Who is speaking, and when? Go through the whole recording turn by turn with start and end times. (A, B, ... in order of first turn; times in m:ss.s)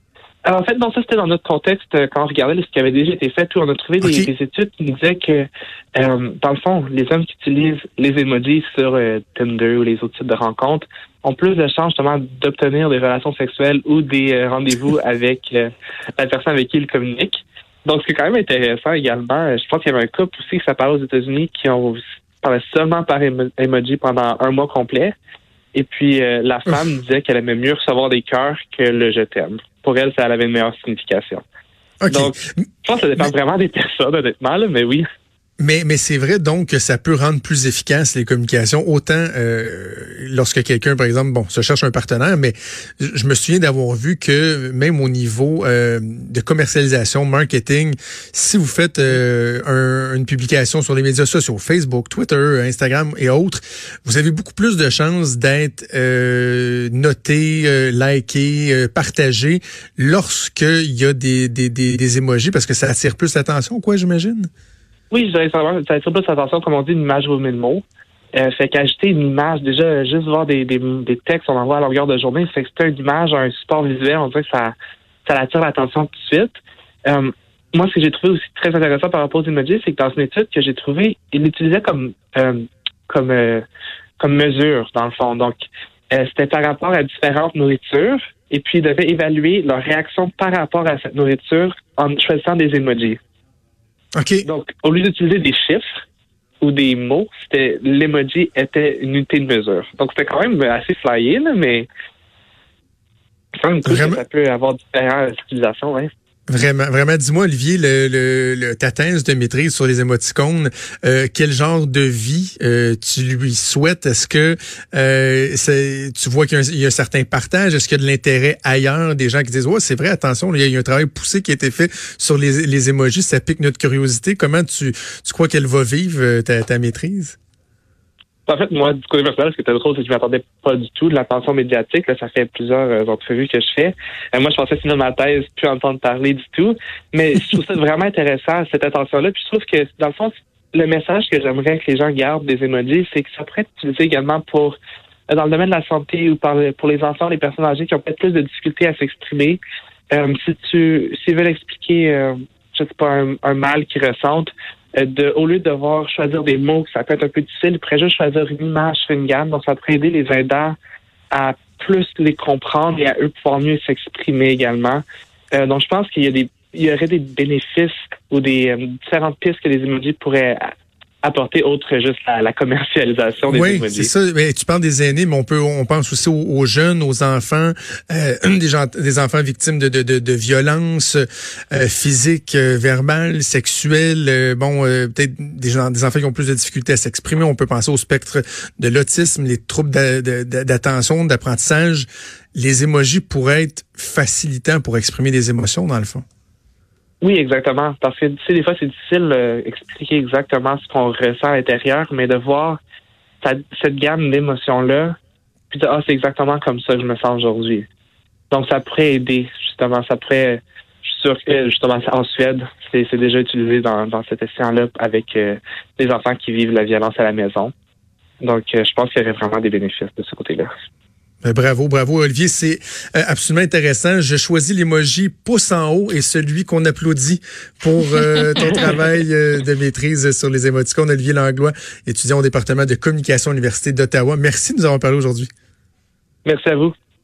0:00.5-0:25.1 A
0:04.0-0:04.3 B
0:25.7-0:31.4 A
0:32.0-0:32.6 B
0:32.1-0:32.4 A
0:32.9-0:35.0 A
0:35.6-1:04.5 B
1:05.1-1:07.8 A
1:08.4-1:14.7 A
1:15.2-1:23.6 A
1:24.2-1:33.2 A
1:34.2-1:34.4 B
1:34.4-1:35.9 A
1:36.6-1:41.9 A
1:43.6-1:46.1 A
1:43.8-1:44.2 B
1:46.5-2:07.4 B
2:08.5-2:24.8 A
2:25.3-2:29.6 A
2:30.1-2:40.8 A
2:41.3-2:50.7 A
2:51.2-2:54.1 A
2:53.5-3:16.2 B
3:17.2-3:22.8 A
3:23.4-3:25.1 A
3:25.7-3:27.9 A
3:28.5-3:37.7 A
3:38.4-3:40.7 A
3:41.4-3:55.5 B
3:48.6-3:48.9 A
3:56.4-3:56.9 A